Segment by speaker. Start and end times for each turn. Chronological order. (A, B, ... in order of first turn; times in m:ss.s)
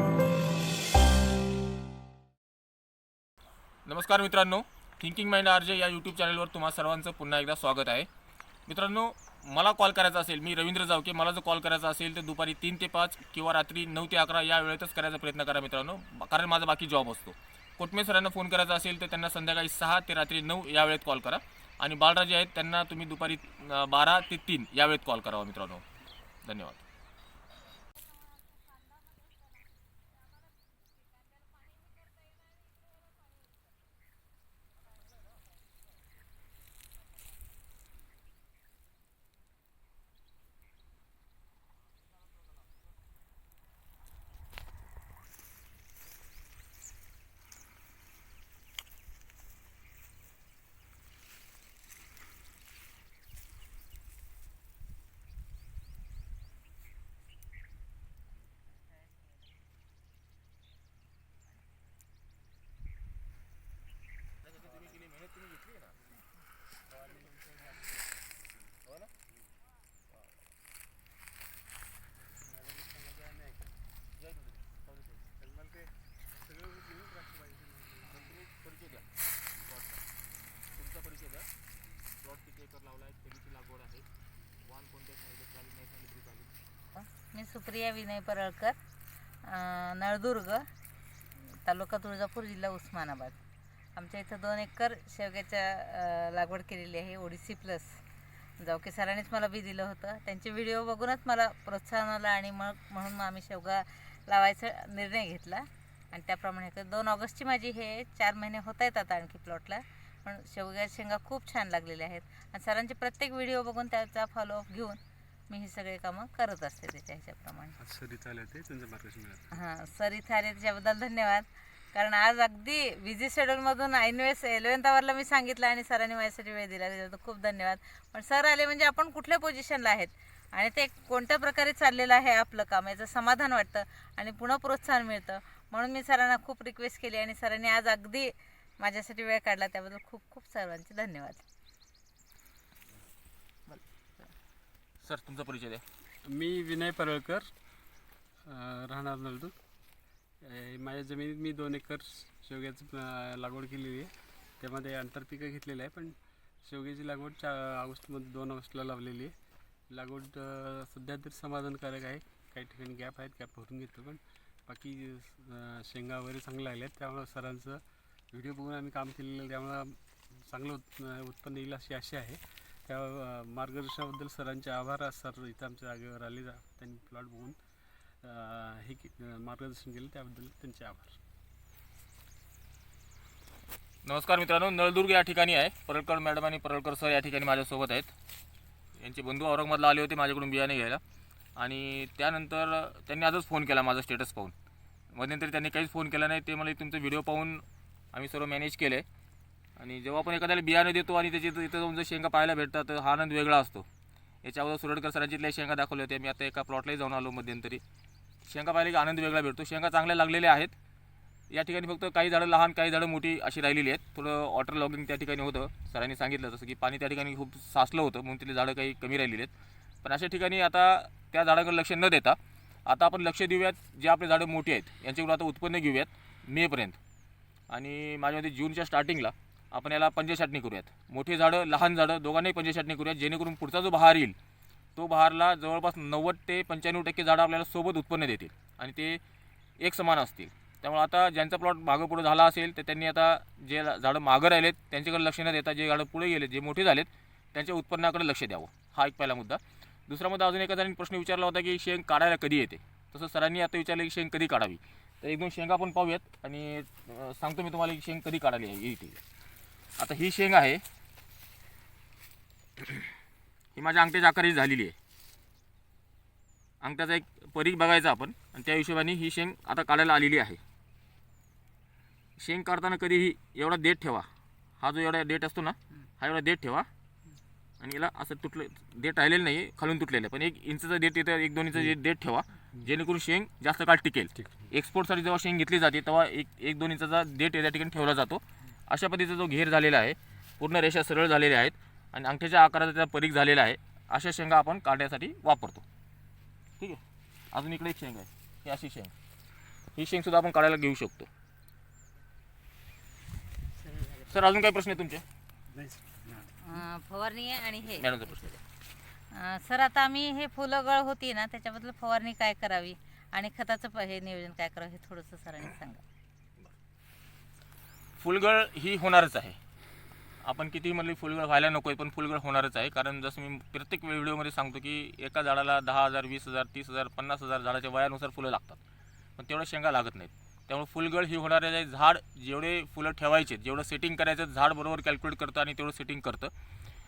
0:03.9-0:08.1 A
0:08.7-0:25.8 A
0:26.4-0:26.8 A
1:04.4-1:06.0 A
1:06.9-1:08.0 B
1:08.9-1:09.1 A
1:12.5-1:13.8 B
1:14.2-1:15.3 A
1:15.4-1:18.4 B
1:18.1-1:20.0 A
1:20.7-1:21.5 A
1:22.2-1:24.1 A
1:24.6-1:26.6 A
1:27.0-1:28.8 C
1:29.4-1:30.6 C
1:31.4-1:33.4 C
1:34.0-1:38.0 C
1:38.6-1:57.8 C
1:57.8-1:59.5 B
1:59.5-2:21.4 C
2:25.0-2:25.8 A
2:26.2-2:27.5 B
2:28.5-2:29.5 B
2:30.4-2:39.4 B
2:39.9-2:57.6 B
2:58.2-3:01.2 B
3:04.0-3:08.1 A
3:09.0-3:11.0 A
3:11.6-3:14.5 A
3:15.1-3:19.0 A
3:19.8-3:23.9 A
3:24.4-3:27.8 A
3:28.4-3:30.8 A
3:31.5-3:39.5 A
3:40.0-3:47.0 A
3:47.7-3:54.4 A
3:55.0-3:59.2 A
3:59.8-4:19.2 A
4:20.0-4:20.8 A
4:22.8-4:23.1 A
4:23.8-4:25.0 A
4:26.8-4:30.6 A
4:32.4-4:34.3 A
4:34.8-4:36.9 A
4:37.8-4:55.8 A
4:44.4-4:44.7 B
4:57.5-4:59.1 A
5:00.0-5:01.3 A
5:04.3-5:05.2 A
5:05.7-5:06.5 B
5:06.6-5:08.6 C
5:08.0-5:08.5 A
5:09.3-5:16.0 C
5:18.2-5:19.6 A
5:20.4-5:28.8 A
5:29.4-5:36.5 A